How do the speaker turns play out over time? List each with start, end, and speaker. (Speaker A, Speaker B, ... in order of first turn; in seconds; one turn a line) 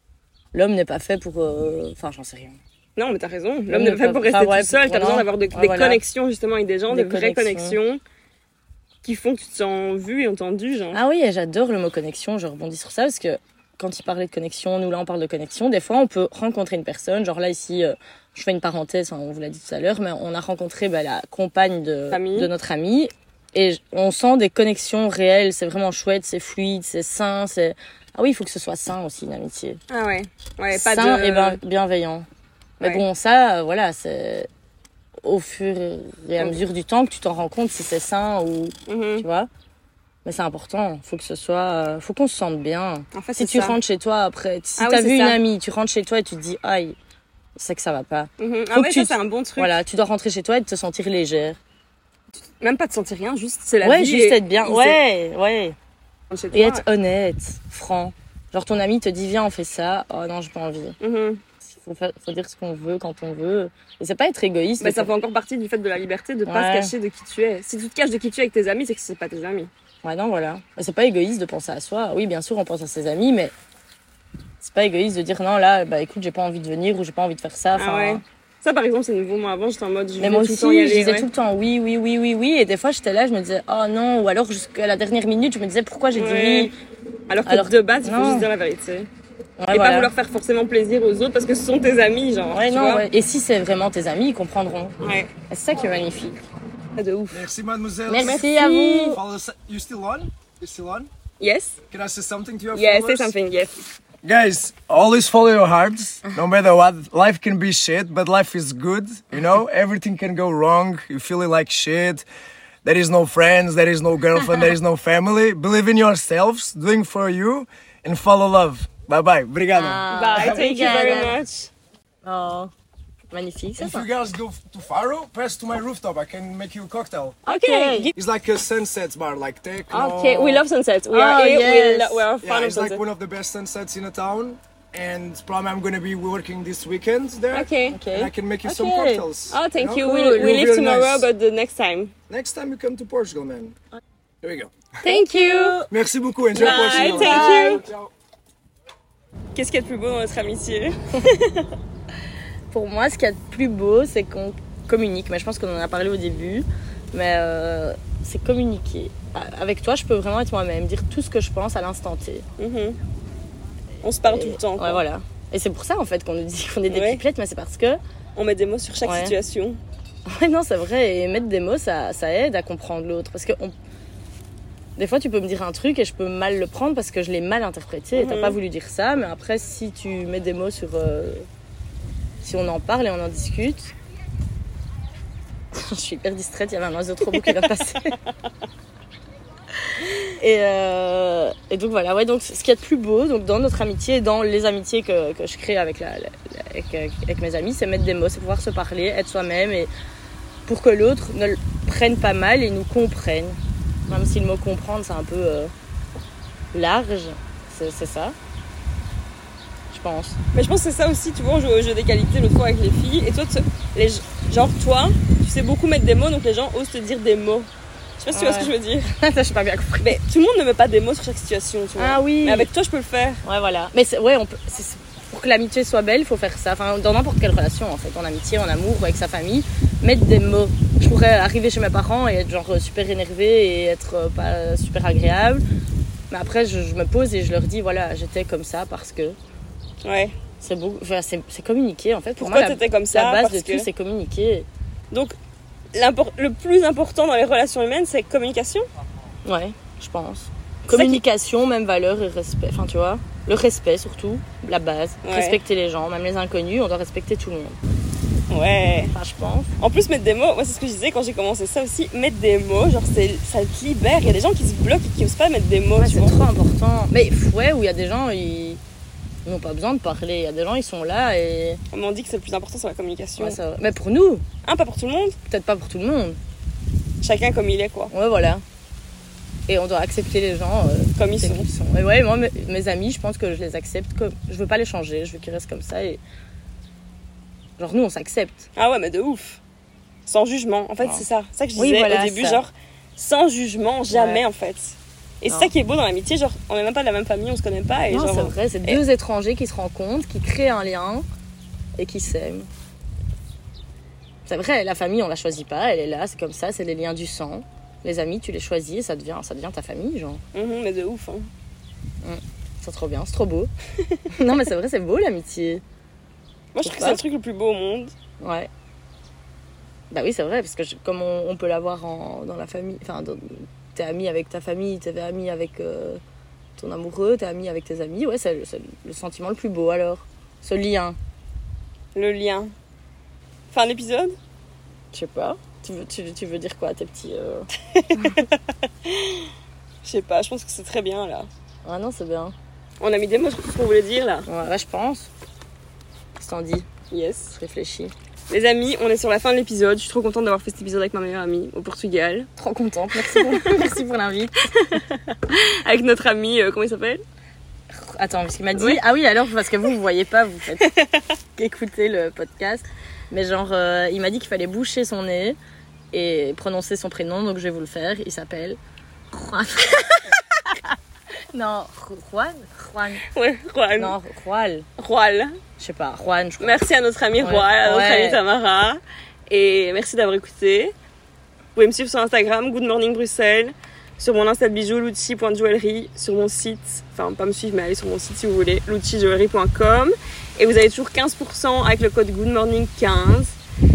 Speaker A: 0.5-2.6
Speaker B: 3.0-8.0
Speaker A: 3.7-6.0
Speaker A: 6.9-7.8
Speaker B: 9.0-11.0
Speaker A: 10.9-29.8
Speaker B: 22.1-22.5
Speaker B: 29.9-31.6
Speaker A: 30.7-32.3
Speaker B: 32.8-33.0
Speaker A: 32.8-34.5
Speaker A: 35.2-39.5
Speaker B: 38.9-39.2
Speaker A: 40.2-47.0
Speaker B: 43.1-43.8
Speaker B: 44.8-45.4
Speaker A: 47.5-51.6
Speaker B: 48.4-49.7
Speaker B: 52.6-55.0
Speaker A: 53.8-55.8
Speaker B: 56.3-56.8
Speaker A: 56.5-61.0
Speaker B: 61.0-61.4
Speaker A: 61.6-65.1
Speaker B: 64.8-69.7
Speaker A: 66.5-66.9
Speaker A: 70.0-73.5
Speaker A: 74.6-78.2
Speaker B: 77.7-81.3
Speaker A: 80.2-86.7
Speaker B: 86.1-86.7
Speaker B: 87.3-89.1
Speaker A: 87.5-88.5
Speaker A: 89.6-90.1
Speaker B: 89.7-93.0
Speaker A: 92.5-95.0
Speaker B: 95.0-95.3
Speaker A: 95.5-96.4
Speaker B: 97.0-97.5
Speaker C: 97.3-101.1
Speaker A: 98.1-99.2
Speaker B: 98.2-98.5
Speaker B: 101.4-101.8
Speaker C: 101.9-103.3
Speaker B: 102.7-103.8
Speaker C: 104.2-112.2
Speaker C: 112.8-121.2
Speaker A: 119.7-121.4
Speaker B: 120.1-121.7
Speaker A: 122.2-122.7
Speaker A: 123.3-124.1
Speaker C: 123.8-127.4
Speaker B: 127.5-128.1
Speaker A: 127.5-128.1
Speaker C: 128.1-130.6
Speaker B: 129.9-133.0
Speaker A: 131.1-132.2
Speaker C: 132.4-141.3
Speaker B: 137.5-138.0
Speaker A: 137.9-139.3
Speaker B: 139.5-142.1
Speaker A: 140.0-140.6
Speaker C: 142.3-143.8
Speaker C: 144.4-145.0
Speaker B: 145.0-145.8
Speaker A: 145.0-145.9
Speaker C: 145.9-148.1
Speaker B: 146.5-147.8
Speaker A: 146.5-147.8
Speaker B: 149.6-151.7
Speaker A: 152.7-162.5
Speaker B: 162.6-163.0
Speaker B: 164.0-165.0
Speaker A: 164.2-168.0
Speaker B: 166.9-167.2
Speaker B: 168.4-169.8
Speaker A: 169.0-169.3
Speaker A: 170.2-173.7
Speaker A: 175.0-181.5
Speaker B: 178.1-178.6
Speaker A: 182.4-183.9
Speaker A: 185.7-188.2
Speaker A: 189.8-199.9
Speaker A: 200.7-205.7
Speaker A: 206.7-208.3
Speaker A: 209.9-210.4
Speaker B: 210.5-219.1
Speaker A: 218.3-220.1
Speaker B: 220.0-223.4
Speaker A: 222.0-222.7
Speaker A: 223.4-235.6
Speaker A: 236.3-239.4
Speaker B: 240.0-240.4
Speaker A: 240.6-244.7
Speaker B: 242.4-243.9
Speaker B: 245.9-248.8
Speaker A: 249.4-257.8
Speaker B: 250.9-251.2
Speaker B: 255.2-255.6
Speaker B: 258.5-259.1
Speaker A: 259.1-259.7
Speaker B: 259.8-266.4
Speaker A: 266.0-268.8
Speaker A: 269.4-271.8
Speaker B: 271.9-273.6
Speaker A: 273.4-274.4
Speaker B: 274.6-275.4
Speaker A: 275.5-276.4
Speaker B: 277.2-278.1
Speaker A: 278.1-278.6
Speaker A: 279.7-286.2
Speaker B: 281.1-281.6
Speaker A: 287.8-288.7
Speaker B: 288.8-289.6
Speaker B: 290.2-299.0
Speaker A: 291.8-292.6
Speaker A: 294.1-294.4
Speaker A: 298.1-301.2
Speaker A: 302.0-302.7
Speaker A: 304.4-310.4
Speaker B: 310.5-311.5
Speaker A: 312.2-313.7
Speaker B: 314.0-314.3
Speaker A: 314.3-315.8
Speaker B: 316.7-318.1
Speaker A: 316.8-317.2
Speaker A: 318.4-318.7
Speaker A: 320.1-326.2
Speaker A: 326.8-331.2
Speaker B: 332.1-332.7
Speaker B: 333.7-334.4
Speaker A: 335.1-337.7
Speaker B: 337.9-339.5
Speaker B: 340.0-341.5
Speaker A: 341.8-342.5
Speaker B: 343.0-344.5
Speaker A: 344.4-345.3
Speaker A: 346.4-346.9
Speaker B: 347.1-347.6
Speaker A: 347.5-348.1
Speaker B: 348.5-352.5
Speaker A: 352.6-354.7
Speaker B: 353.2-353.8
Speaker B: 354.7-357.2
Speaker A: 357.9-360.9
Speaker B: 358.7-359.0
Speaker B: 360.8-361.2
Speaker A: 361.6-365.6
Speaker A: 366.1-368.8
Speaker A: 369.3-371.0
Speaker A: 371.5-373.2
Speaker B: 373.3-374.1
Speaker A: 374.0-374.9
Speaker B: 375.0-375.6
Speaker A: 375.8-376.8
Speaker B: 376.6-380.9
Speaker A: 377.4-378.4
Speaker B: 381.8-393.6